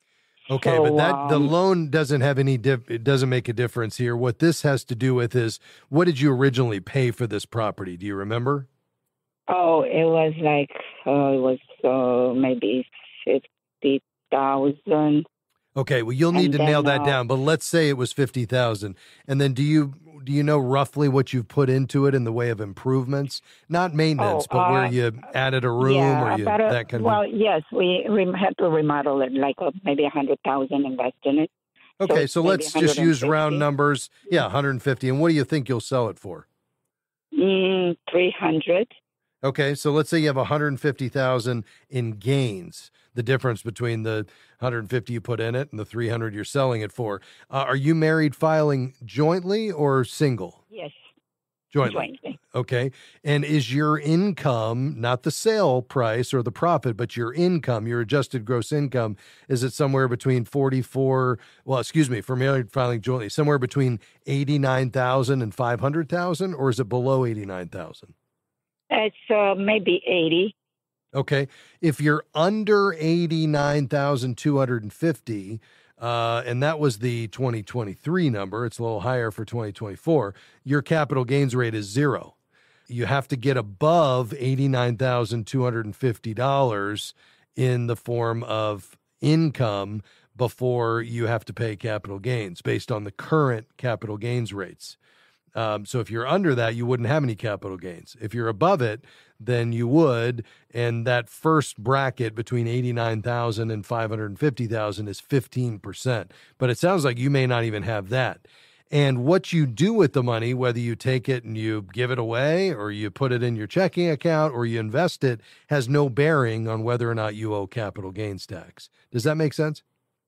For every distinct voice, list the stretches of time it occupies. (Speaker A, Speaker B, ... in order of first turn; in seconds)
Speaker A: 0.5-8.7, 15.8-27.2, 32.0-36.5, 39.4-50.6, 51.7-68.1, 71.1-82.3, 82.9-95.0, 95.6-119.8
Speaker B: 0.5-1.5, 9.5-15.3, 16.3-17.2, 24.2-25.0, 25.8-31.5, 32.0-33.6, 37.3-38.9, 50.7-51.0, 51.8-52.4, 68.9-70.5